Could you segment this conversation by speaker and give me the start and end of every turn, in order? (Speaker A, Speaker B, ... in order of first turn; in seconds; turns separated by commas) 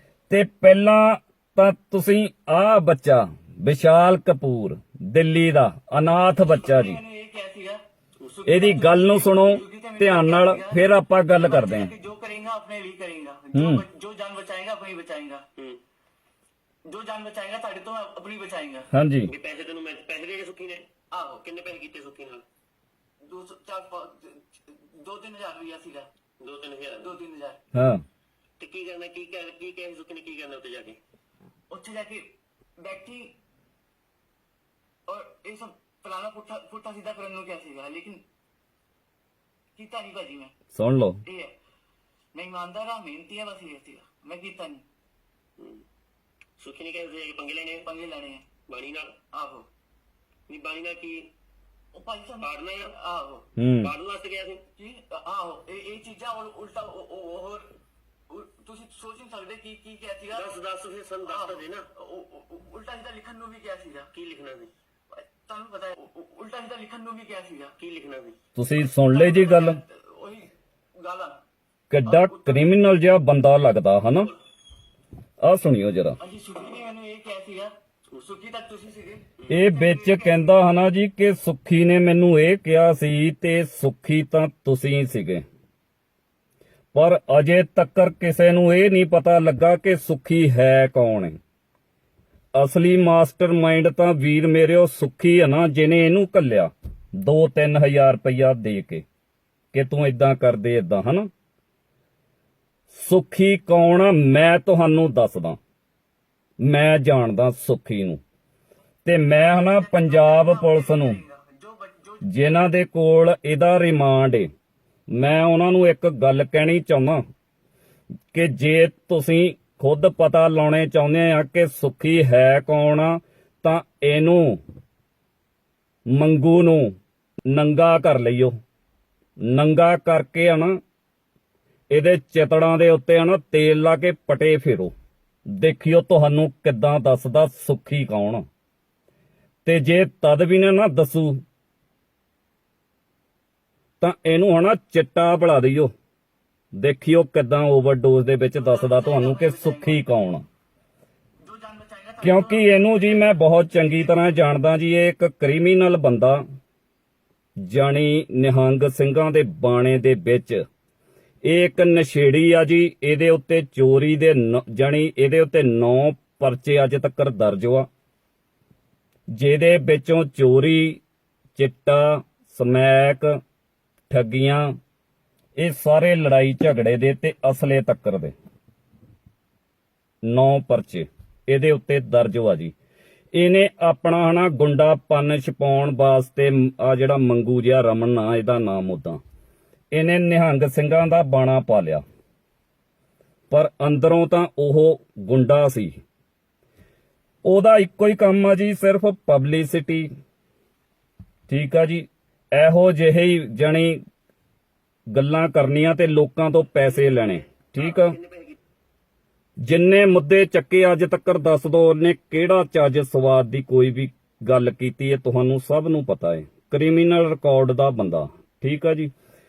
Speaker A: 0.3-7.0, Speaker B: 6.5-10.8, Speaker A: 8.5-11.9, Speaker B: 11.4-15.5, Speaker A: 13.5-13.8, Speaker B: 16.9-18.9, Speaker A: 18.9-19.3, Speaker C: 19.2-20.9, Speaker B: 21.1-21.7, Speaker C: 21.4-22.4, Speaker B: 23.2-26.1, Speaker C: 26.4-27.1, Speaker B: 27.0-27.6, Speaker A: 27.7-28.0, Speaker C: 28.6-31.0, Speaker B: 31.7-33.4, Speaker B: 35.1-38.2, Speaker B: 39.7-40.5, Speaker A: 40.7-41.2, Speaker B: 41.2-41.5, Speaker B: 42.3-44.8, Speaker C: 45.6-45.8, Speaker C: 46.6-47.9, Speaker B: 47.8-48.5, Speaker C: 48.7-49.2, Speaker B: 49.3-49.7, Speaker C: 50.5-51.3, Speaker B: 51.9-53.5, Speaker C: 52.4-52.9, Speaker A: 53.6-53.9, Speaker C: 53.8-54.6, Speaker B: 54.8-57.7, Speaker B: 58.3-60.6, Speaker C: 60.3-61.8, Speaker B: 61.2-64.1, Speaker C: 64.1-64.7, Speaker B: 65.1-67.8, Speaker C: 67.8-68.3, Speaker A: 68.5-69.8, Speaker B: 69.1-71.4, Speaker A: 71.9-74.3, Speaker B: 72.0-72.7, Speaker A: 75.4-76.2, Speaker B: 76.2-80.5, Speaker A: 79.5-85.4, Speaker A: 86.9-91.4, Speaker A: 92.5-99.0, Speaker A: 99.7-101.3, Speaker A: 102.9-105.6, Speaker A: 106.6-108.2, Speaker A: 109.0-111.2, Speaker B: 109.5-112.2, Speaker A: 112.2-114.5, Speaker A: 115.1-117.2, Speaker A: 118.3-124.6, Speaker A: 126.1-126.9, Speaker A: 127.5-128.5, Speaker A: 129.5-130.8, Speaker A: 131.9-134.9, Speaker A: 135.5-138.4, Speaker A: 139.6-141.4, Speaker A: 144.0-145.9, Speaker A: 146.7-150.4, Speaker B: 148.6-150.2, Speaker B: 151.4-153.3, Speaker A: 152.2-156.4, Speaker A: 157.6-160.6, Speaker A: 161.4-167.9, Speaker A: 169.3-171.0, Speaker A: 171.6-173.3, Speaker A: 174.1-174.7, Speaker A: 175.6-178.3, Speaker A: 180.2-182.7, Speaker A: 183.3-189.2, Speaker A: 189.9-192.0, Speaker A: 193.5-196.0, Speaker A: 197.4-200.1, Speaker A: 201.5-204.0, Speaker A: 205.1-208.2, Speaker C: 207.8-208.6, Speaker A: 209.6-219.1